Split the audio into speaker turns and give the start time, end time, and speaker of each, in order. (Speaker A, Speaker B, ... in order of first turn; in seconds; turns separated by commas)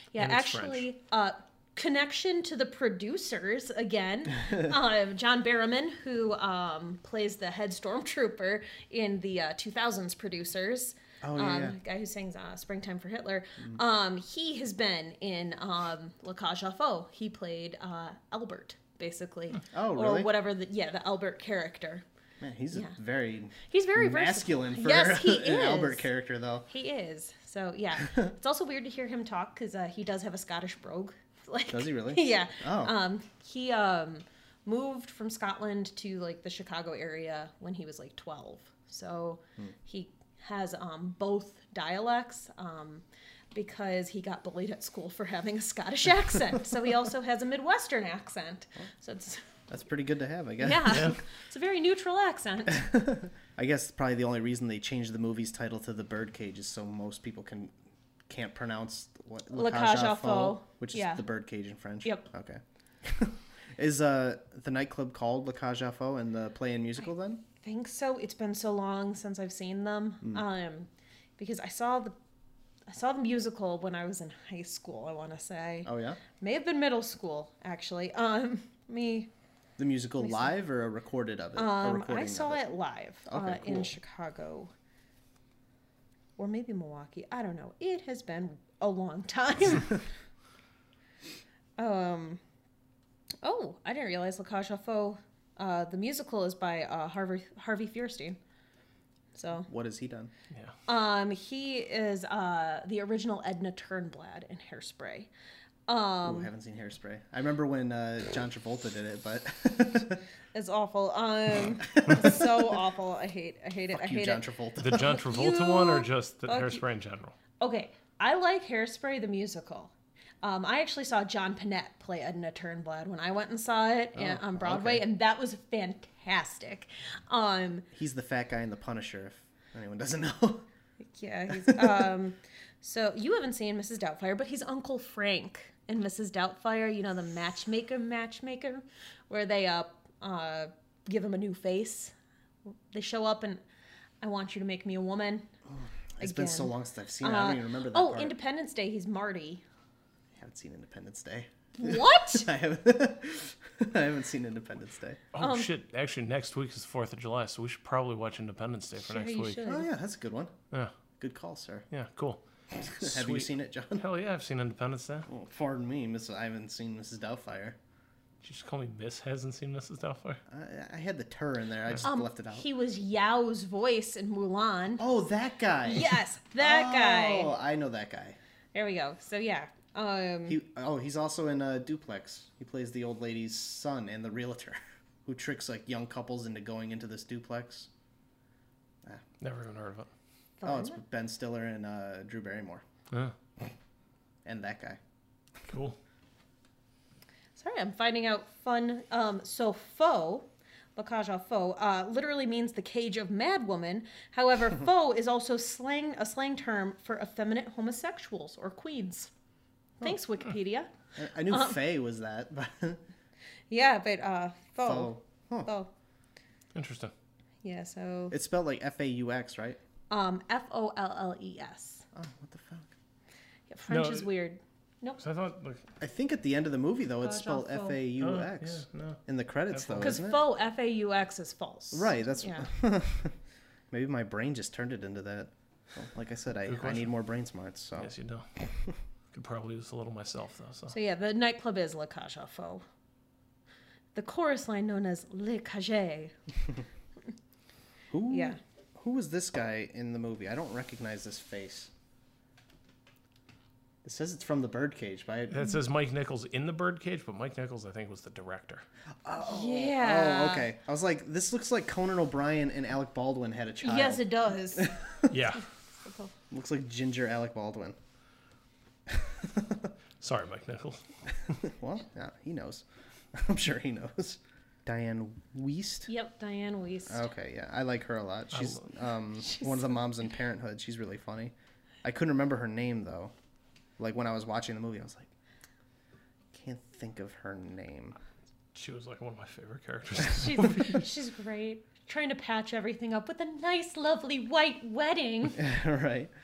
Speaker A: 0.1-22.1, Speaker B: 0.2-0.9, Speaker C: 11.2-11.8, Speaker C: 19.7-20.3, Speaker C: 22.4-26.7, Speaker A: 23.6-26.1, Speaker A: 26.7-49.4, Speaker C: 31.7-33.0, Speaker C: 49.7-51.2, Speaker A: 50.6-52.9, Speaker B: 50.9-51.2, Speaker C: 52.7-57.7, Speaker C: 58.3-67.4, Speaker A: 59.5-61.2, Speaker A: 67.6-72.2, Speaker A: 72.9-79.3, Speaker C: 75.8-76.2, Speaker C: 79.8-82.7, Speaker A: 80.2-80.5, Speaker A: 81.6-84.7, Speaker C: 83.3-84.0, Speaker A: 86.4-90.0, Speaker A: 91.8-92.4, Speaker A: 93.4-98.4, Speaker A: 99.4-99.7, Speaker C: 99.6-100.3, Speaker A: 100.9-105.3, Speaker A: 105.9-106.5, Speaker C: 106.2-110.2, Speaker A: 110.5-116.8, Speaker C: 112.0-112.4, Speaker C: 113.9-114.9, Speaker B: 114.8-117.3, Speaker A: 117.6-127.9, Speaker C: 124.2-125.0, Speaker C: 127.9-130.7, Speaker A: 131.2-142.2, Speaker C: 131.6-131.8, Speaker A: 142.9-143.6, Speaker A: 144.2-145.5, Speaker C: 145.7-148.3, Speaker A: 146.2-149.6, Speaker C: 150.4-155.2, Speaker A: 151.8-152.5, Speaker B: 155.3-159.6, Speaker A: 155.4-155.7, Speaker A: 159.1-159.9, Speaker C: 159.6-160.5, Speaker C: 161.2-161.9, Speaker B: 161.9-162.4, Speaker C: 162.8-164.0, Speaker B: 163.0-165.3, Speaker C: 165.3-167.8, Speaker B: 168.4-170.4, Speaker C: 170.5-172.7, Speaker A: 172.0-175.0, Speaker C: 175.0-178.4, Speaker A: 175.8-177.5, Speaker A: 178.7-180.6, Speaker C: 180.5-187.9, Speaker B: 189.4-190.1, Speaker A: 190.6-191.0, Speaker C: 190.6-192.8, Speaker C: 194.4-195.0, Speaker B: 195.7-196.0, Speaker A: 197.6-209.3, Speaker A: 210.0-210.9, Speaker C: 211.2-213.0, Speaker A: 211.5-211.8, Speaker A: 213.7-215.9, Speaker C: 214.8-215.7, Speaker B: 216.8-217.1, Speaker A: 217.6-218.4, Speaker C: 218.3-219.8, Speaker A: 220.1-222.1, Speaker C: 222.1-222.9, Speaker A: 223.7-225.2, Speaker B: 223.9-224.3, Speaker B: 225.2-225.9, Speaker C: 226.0-230.4, Speaker A: 227.2-228.0, Speaker B: 228.2-230.2, Speaker A: 230.0-232.7, Speaker C: 231.9-233.3, Speaker C: 233.9-238.1, Speaker B: 236.7-237.1, Speaker B: 238.0-238.5, Speaker B: 239.3-240.9, Speaker A: 240.9-242.8, Speaker A: 244.2-246.3, Speaker C: 248.1-251.9, Speaker A: 248.3-248.6, Speaker C: 254.0-255.7, Speaker B: 255.5-258.9, Speaker C: 259.2-265.3, Speaker A: 259.5-260.7, Speaker A: 263.8-264.9, Speaker B: 265.3-265.6, Speaker A: 266.0-266.3, Speaker C: 266.5-268.0, Speaker C: 269.1-269.9, Speaker B: 270.2-271.0, Speaker C: 271.6-276.1, Speaker A: 276.1-277.3, Speaker C: 277.1-283.3, Speaker B: 278.5-278.8, Speaker C: 284.0-285.3, Speaker C: 286.5-288.2, Speaker B: 288.7-291.0, Speaker A: 290.4-295.6, Speaker C: 295.6-296.3